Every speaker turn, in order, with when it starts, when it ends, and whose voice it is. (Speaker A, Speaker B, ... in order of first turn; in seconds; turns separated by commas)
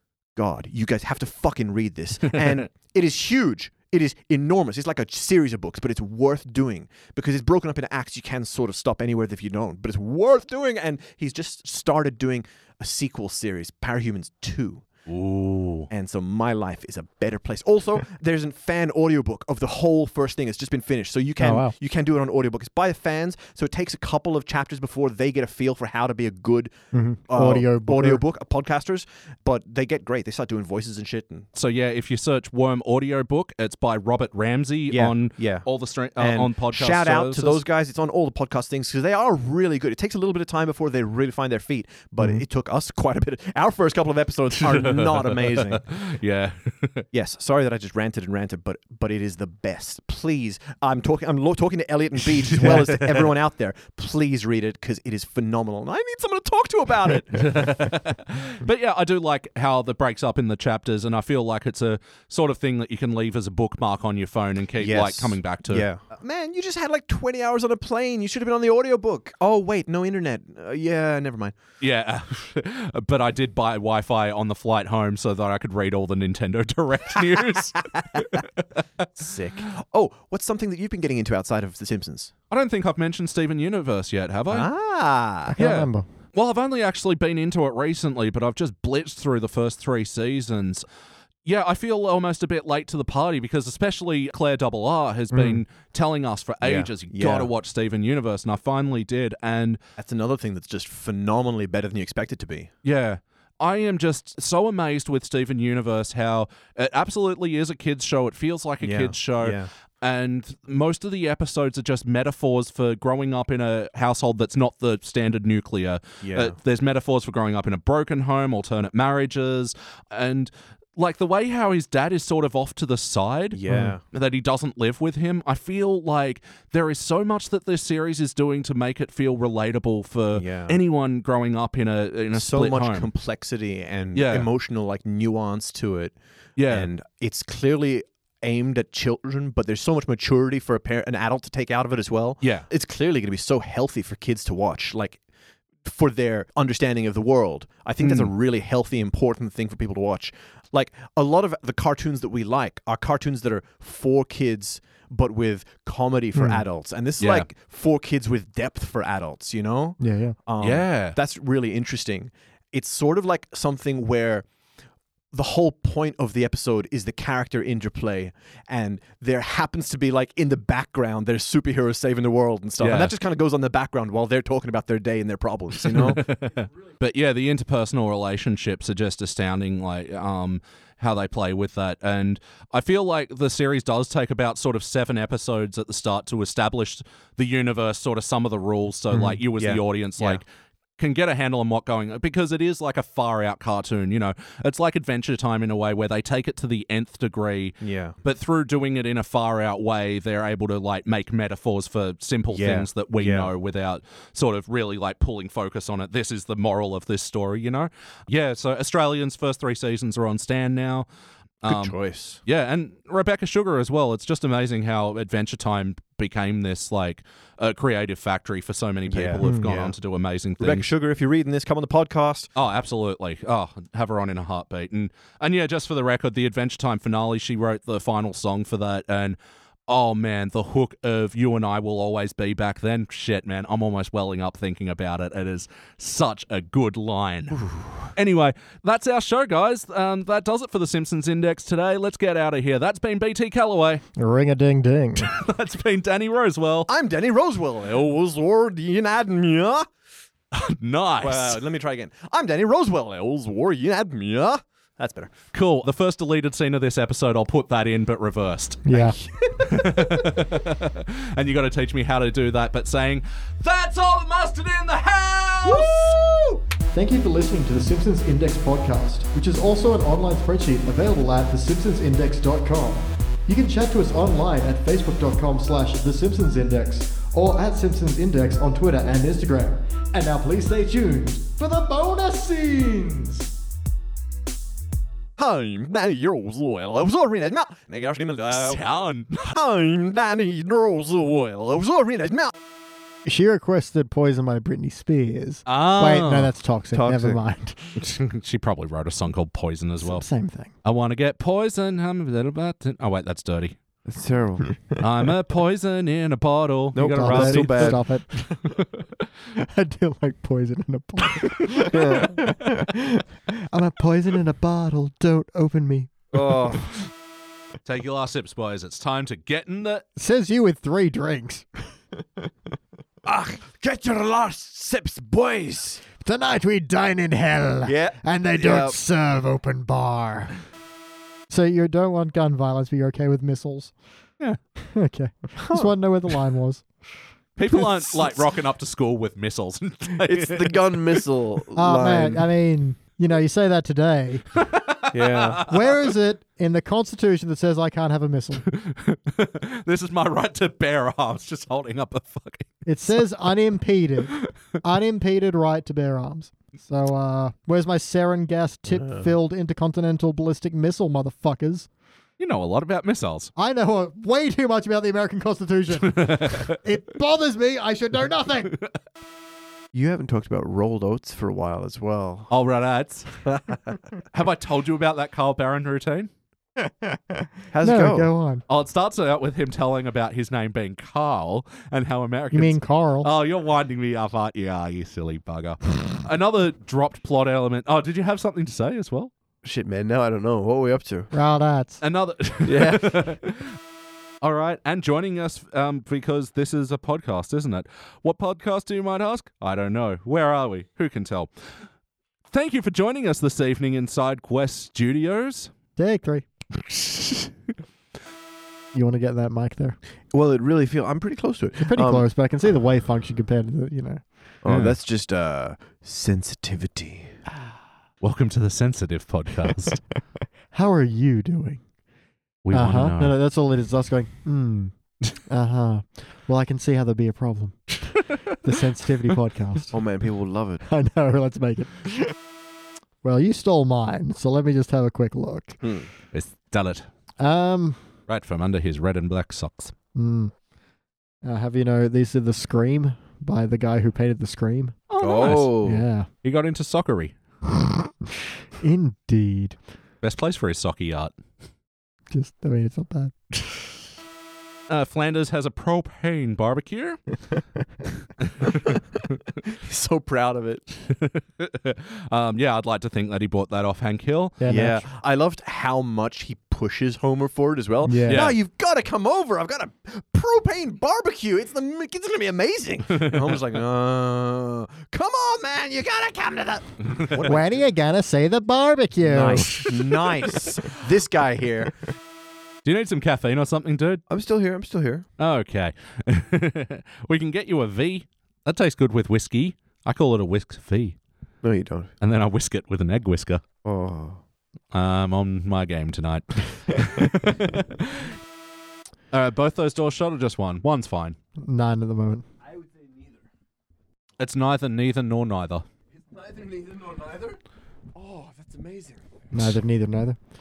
Speaker A: 0.4-14.8, Speaker B: 15.1-15.9, Speaker A: 15.9-26.7, Speaker C: 21.4-21.7, Speaker C: 26.9-28.2, Speaker A: 27.3-31.5, Speaker B: 31.6-37.6, Speaker A: 34.9-35.7, Speaker A: 36.2-45.9, Speaker B: 44.6-47.1, Speaker A: 47.1-57.6, Speaker B: 52.4-53.3, Speaker B: 57.3-65.9, Speaker A: 64.8-71.6, Speaker B: 71.8-79.1, Speaker A: 79.2-82.3, Speaker B: 82.5-84.7, Speaker A: 84.5-85.6, Speaker C: 85.5-86.1, Speaker B: 85.6-90.8, Speaker B: 91.5-99.8, Speaker C: 95.3-95.6, Speaker A: 96.6-97.5, Speaker A: 100.0-102.7, Speaker B: 102.8-133.1, Speaker A: 108.8-109.7, Speaker A: 116.2-116.6, Speaker A: 123.5-124.0, Speaker C: 123.7-124.0, Speaker A: 130.3-130.8, Speaker A: 132.3-136.2, Speaker B: 134.2-134.5, Speaker B: 136.6-136.9, Speaker A: 136.7-145.2, Speaker A: 145.8-164.5, Speaker B: 148.0-148.3, Speaker C: 156.3-156.6, Speaker B: 157.2-157.5, Speaker C: 160.0-160.4, Speaker B: 160.6-161.2, Speaker A: 165.3-176.2, Speaker B: 172.8-173.1, Speaker B: 175.8-190.4, Speaker A: 189.6-190.4, Speaker B: 191.0-211.1, Speaker A: 197.8-198.2, Speaker A: 202.5-203.5, Speaker B: 211.6-220.9, Speaker A: 211.7-212.4, Speaker A: 219.1-220.0, Speaker A: 220.6-222.5, Speaker B: 222.6-244.0, Speaker A: 237.6-238.1, Speaker C: 244.2-245.3, Speaker B: 245.2-246.9, Speaker A: 246.9-249.9, Speaker B: 250.5-251.6, Speaker A: 251.2-255.4, Speaker B: 255.5-258.9, Speaker C: 258.9-259.2, Speaker A: 258.9-260.1, Speaker B: 259.6-266.2, Speaker A: 265.6-266.6, Speaker C: 266.9-283.5, Speaker A: 285.4-288.8, Speaker B: 288.5-289.6, Speaker A: 289.4-292.6, Speaker C: 293.3-298.0, Speaker B: 295.7-296.5, Speaker A: 296.9-297.4, Speaker B: 298.0-300.2, Speaker C: 300.0-300.7, Speaker B: 300.8-303.8, Speaker A: 304.1-305.1, Speaker B: 305.0-309.1, Speaker A: 306.9-308.0, Speaker C: 307.1-308.3, Speaker C: 309.6-317.0, Speaker A: 311.9-312.4, Speaker B: 311.9-312.4, Speaker A: 316.3-316.9, Speaker B: 317.9-320.0, Speaker C: 320.2-321.7, Speaker A: 323.2-326.0, Speaker C: 326.2-330.6, Speaker A: 327.9-329.0, Speaker C: 331.5-333.9, Speaker C: 334.8-336.9, Speaker A: 335.6-335.9, Speaker B: 337.6-341.2, Speaker A: 340.2-342.5, Speaker C: 341.8-344.4, Speaker B: 344.6-346.1, Speaker A: 345.1-345.6, Speaker C: 345.6-348.6, Speaker B: 348.7-353.2, Speaker C: 352.9-361.9, Speaker A: 359.0-359.3, Speaker B: 362.4-363.5, Speaker C: 363.6-368.8, Speaker B: 366.0-366.8, Speaker A: 369.9-372.5, Speaker B: 372.5-373.4, Speaker A: 373.5-374.0, Speaker B: 374.3-376.3, Speaker A: 377.7-378.3, Speaker C: 377.8-378.6, Speaker B: 378.7-389.3, Speaker C: 382.5-383.3, Speaker A: 389.6-391.3, Speaker C: 391.3-392.0, Speaker B: 392.0-393.8, Speaker A: 392.6-393.3, Speaker B: 394.4-401.5, Speaker B: 402.5-405.7, Speaker C: 406.0-406.5, Speaker C: 408.9-410.0, Speaker A: 410.3-412.3, Speaker C: 411.8-414.2, Speaker A: 414.6-417.4, Speaker B: 414.7-414.9, Speaker B: 418.2-420.0, Speaker C: 420.7-421.8, Speaker B: 422.6-423.3, Speaker C: 422.7-424.9, Speaker C: 425.4-430.0, Speaker A: 429.9-430.8, Speaker C: 430.9-432.3, Speaker C: 433.2-435.8, Speaker A: 435.8-436.1, Speaker B: 436.3-437.1, Speaker C: 437.4-438.0, Speaker B: 438.3-439.9, Speaker C: 440.1-440.5, Speaker C: 441.4-445.0, Speaker B: 445.1-445.8, Speaker A: 445.2-446.0, Speaker C: 445.8-446.3, Speaker B: 446.4-447.4, Speaker C: 448.8-449.8, Speaker B: 450.2-451.3, Speaker C: 452.3-453.7, Speaker B: 454.9-457.2, Speaker B: 458.4-459.0, Speaker A: 458.7-459.0, Speaker A: 459.6-460.9, Speaker B: 461.1-464.6, Speaker C: 464.6-465.1, Speaker A: 464.7-477.9, Speaker C: 468.1-468.5, Speaker B: 468.3-468.6, Speaker B: 473.1-473.6, Speaker B: 477.1-477.4, Speaker C: 477.5-479.9, Speaker A: 479.2-482.1, Speaker B: 482.9-484.2, Speaker A: 484.3-485.3, Speaker B: 485.4-491.2, Speaker A: 491.6-492.1, Speaker B: 492.2-493.6, Speaker A: 493.8-494.4, Speaker B: 494.9-498.3, Speaker B: 499.3-501.4, Speaker C: 501.6-502.4, Speaker A: 502.7-503.4, Speaker B: 504.4-505.9, Speaker A: 506.2-507.6, Speaker A: 508.1-509.2, Speaker C: 509.5-510.4